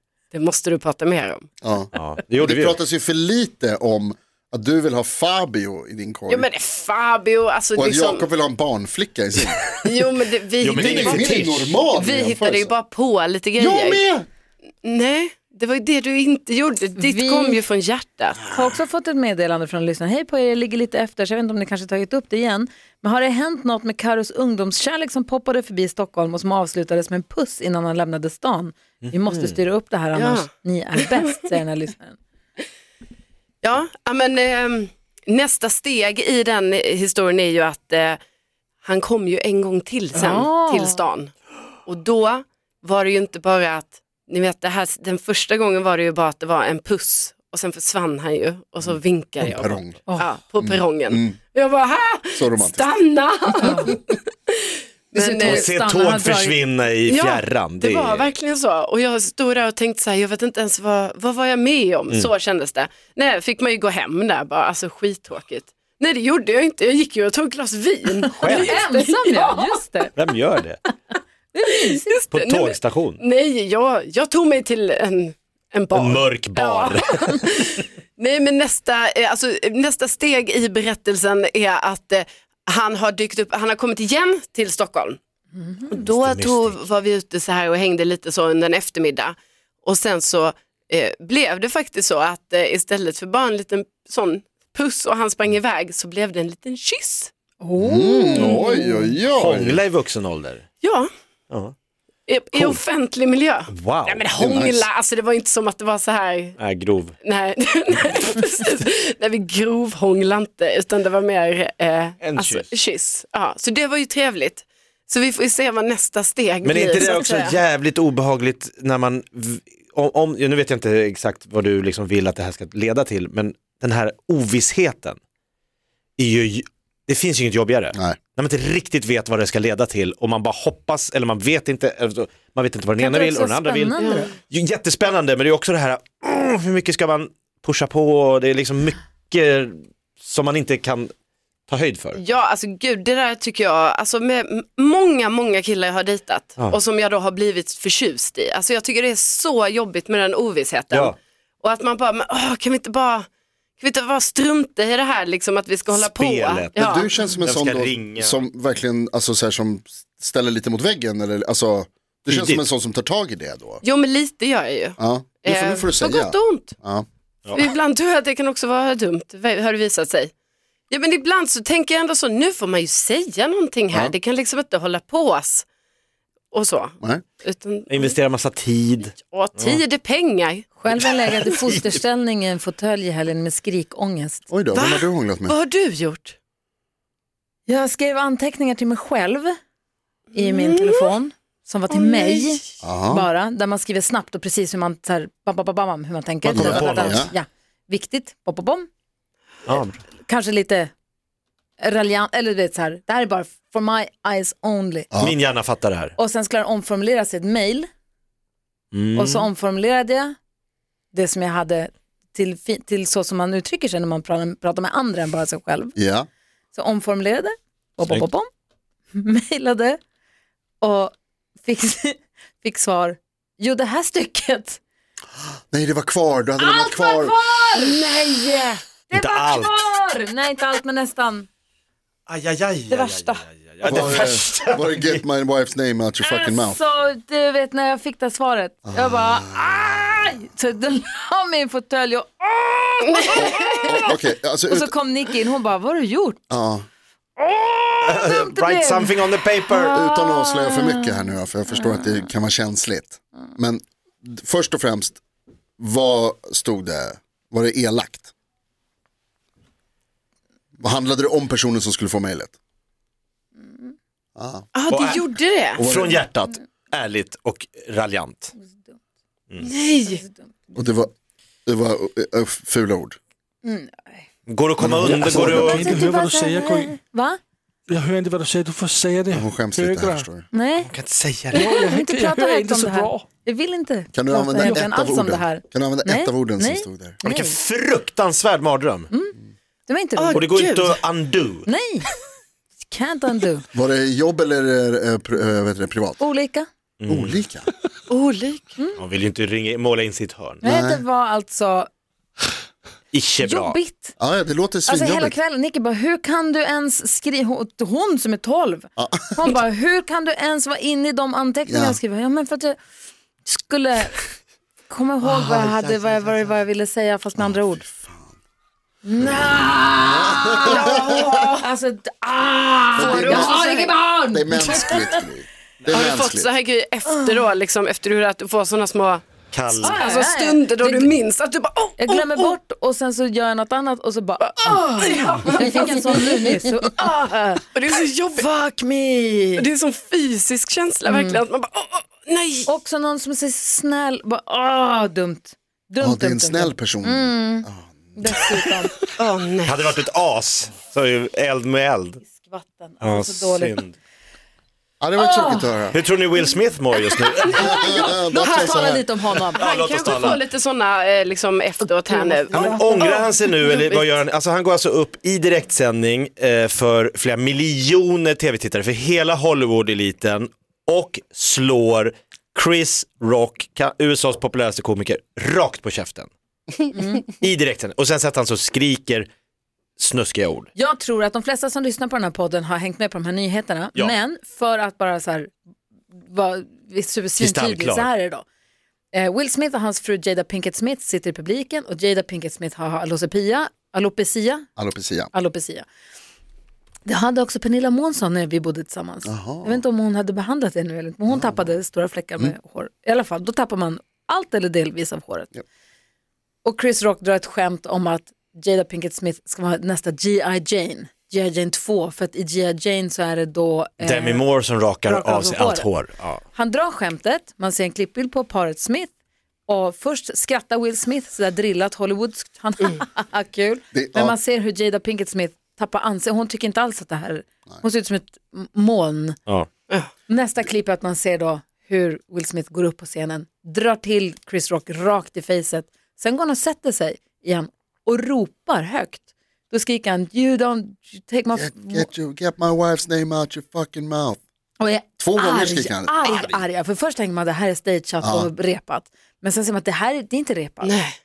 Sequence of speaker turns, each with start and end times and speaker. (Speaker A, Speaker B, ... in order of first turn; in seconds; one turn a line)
Speaker A: 0.3-1.5
Speaker B: 1.6-6.5
Speaker C: 1.9-2.8
Speaker A: 6.3-8.3
Speaker B: 7.8-9.8
Speaker A: 9.8-14.0
Speaker C: 10.6-11.8
Speaker B: 10.6-12.7
Speaker B: 13.6-14.3
Speaker A: 14.8-18.6
Speaker D: 17.0-17.6
Speaker D: 18.5-32.2
Speaker C: 29.0-29.6
Speaker A: 30.1-31.3
Speaker A: 33.6-38.2
Speaker A: 38.8-41.3
Speaker D: 40.1-41.0
Speaker A: 41.9-55.7
Speaker B: 49.4-50.0
Speaker B: 50.6-51.4
Speaker B: 52.3-52.9
Speaker D: 53.6-53.9
Speaker D: 55.1-56.6
Speaker C: 55.4-58.3
Speaker A: 57.1-69.8
Speaker C: 68.3-68.8
Speaker D: 68.3-70.1
Speaker C: 70.2-70.8
Speaker D: 71.5-72.2
Speaker A: 71.7-85.2
Speaker C: 72.3-73.2
Speaker C: 75.9-77.4
Speaker D: 85.5-85.9
Speaker A: 85.9-97.3
Speaker C: 85.9-86.8
Speaker D: 97.6-99.1
Speaker B: 97.8-99.8
Speaker A: 98.3-98.7
Speaker C: 99.3-100.6
Speaker A: 100.8-101.1
Speaker A: 102.3-106.6
Speaker C: 102.5-102.8
Speaker C: 103.7-104.2
Speaker B: 104.4-104.9
Speaker C: 106.6-107.2
Speaker A: 107.2-117.6
Speaker C: 112.2-112.7
Speaker C: 116.6-125.2
Speaker C: 126.2-141.1
Speaker B: 127.9-128.2
Speaker D: 133.0-134.3
Speaker A: 134.0-134.3
Speaker C: 141.7-142.2
Speaker A: 142.1-153.3
Speaker C: 150.9-151.2
Speaker A: 153.8-157.2
Speaker C: 155.9-156.9
Speaker B: 156.8-163.8
Speaker C: 157.4-158.4
Speaker C: 162.3-162.7
Speaker A: 163.8-166.8
Speaker B: 165.0-167.1
Speaker A: 167.5-170.3
Speaker A: 170.9-175.7
Speaker A: 176.5-178.2
Speaker C: 177.9-179.8
Speaker A: 179.0-181.4
Speaker D: 180.8-184.4
Speaker C: 181.4-181.9
Speaker B: 184.5-185.6
Speaker A: 184.7-186.4
Speaker D: 187.7-189.6
Speaker A: 190.3-191.0
Speaker D: 190.3-198.9
Speaker A: 191.9-192.6
Speaker B: 192.8-193.3
Speaker B: 196.4-197.3
Speaker C: 196.5-197.3
Speaker C: 199.7-200.0
Speaker D: 200.2-200.9
Speaker D: 201.8-205.1
Speaker B: 205.1-205.4
Speaker C: 205.2-206.1
Speaker D: 206.2-207.9
Speaker C: 208.9-209.5
Speaker D: 209.1-210.4
Speaker D: 211.1-215.9
Speaker B: 215.9-216.3
Speaker D: 216.7-218.5
Speaker D: 219.1-220.0
Speaker D: 220.8-224.8
Speaker B: 225.7-227.4
Speaker D: 226.6-228.0
Speaker A: 227.8-228.8
Speaker D: 229.1-231.5
Speaker C: 229.1-229.9
Speaker C: 232.3-235.2
Speaker D: 232.9-233.4
Speaker B: 233.8-236.8
Speaker D: 236.2-244.2
Speaker B: 238.9-239.8
Speaker A: 243.1-244.0
Speaker B: 243.9-244.9
Speaker D: 244.7-246.4
Speaker B: 246.5-246.9
Speaker D: 247.4-252.3
Speaker C: 248.0-249.9
Speaker B: 249.8-255.2
Speaker B: 255.8-258.3
Speaker B: 260.8-262.5
Speaker D: 263.6-263.9
Speaker B: 264.4-264.7
Speaker A: 264.8-265.9
Speaker C: 264.9-265.2
Speaker C: 265.8-268.5
Speaker B: 265.8-266.2
Speaker D: 268.5-269.0
Speaker A: 269.6-270.2
Speaker D: 270.0-270.9
Speaker B: 270.7-271.1
Speaker B: 271.6-273.2
Speaker D: 273.6-274.2
Speaker C: 274.5-275.8
Speaker B: 274.8-276.0
Speaker E: 275.0-276.9
Speaker D: 275.4-277.4
Speaker E: 277.9-280.3
Speaker B: 279.3-280.5
Speaker D: 280.5-280.9
Speaker C: 280.8-281.7
Speaker D: 281.5-287.6
Speaker E: 281.5-283.2
Speaker B: 284.1-287.2
Speaker E: 284.6-284.9
Speaker C: 287.2-289.1
Speaker D: 289.1-290.4
Speaker A: 290.1-291.0
Speaker C: 290.3-291.7
Speaker D: 291.6-292.1
Speaker D: 292.8-293.7
Speaker B: 293.7-296.2
Speaker D: 296.2-296.7
Speaker C: 297.0-297.4
Speaker B: 297.1-297.7
Speaker A: 298.1-298.8
Speaker C: 298.9-300.6
Speaker D: 300.6-301.9
Speaker B: 300.6-301.0
Speaker C: 303.1-303.8
Speaker D: 303.4-304.1
Speaker B: 304.2-305.4
Speaker D: 304.9-312.8
Speaker B: 309.0-309.5
Speaker B: 311.7-312.0
Speaker D: 313.4-314.2
Speaker D: 314.9-317.9
Speaker B: 315.2-316.3
Speaker B: 317.4-318.4
Speaker D: 319.0-325.2
Speaker B: 319.2-321.1
Speaker A: 320.6-321.6
Speaker B: 322.9-326.5
Speaker A: 322.9-323.8
Speaker A: 325.9-332.6
Speaker D: 327.1-327.4
Speaker C: 329.5-330.0
Speaker D: 329.7-331.1
Speaker D: 332.0-337.7
Speaker A: 334.4-337.1
Speaker A: 337.7-338.4
Speaker D: 338.3-339.7
Speaker A: 339.6-342.7
Speaker D: 341.1-341.4
Speaker D: 342.7-348.9
Speaker B: 346.0-348.4
Speaker A: 349.2-349.9
Speaker C: 349.6-352.2
Speaker D: 352.2-353.8
Speaker C: 353.0-353.9
Speaker B: 355.0-356.0
Speaker D: 355.2-355.7
Speaker C: 355.9-357.8
Speaker D: 356.9-359.6
Speaker A: 357.5-358.7
Speaker B: 357.6-359.1
Speaker A: 359.5-364.2
Speaker C: 359.6-360.4
Speaker D: 361.8-363.2
Speaker C: 362.5-376.3
Speaker D: 376.9-377.2
Speaker C: 377.2-379.3
Speaker C: 380.0-380.7
Speaker D: 380.7-385.5
Speaker D: 386.2-388.4
Speaker C: 387.4-388.1
Speaker D: 389.1-394.7
Speaker B: 394.8-395.3
Speaker D: 395.3-395.9
Speaker D: 397.1-405.5
Speaker B: 399.2-399.8
Speaker B: 401.3-401.7
Speaker D: 406.6-414.5
Speaker C: 414.0-416.4
Speaker D: 415.0-415.9
Speaker D: 416.5-419.1
Speaker D: 419.7-429.4
Speaker B: 423.9-424.4
Speaker D: 430.3-442.1
Speaker B: 441.5-444.4
Speaker D: 444.8-450.9
Speaker B: 445.2-446.6
Speaker B: 448.2-448.5
Speaker A: 450.8-451.2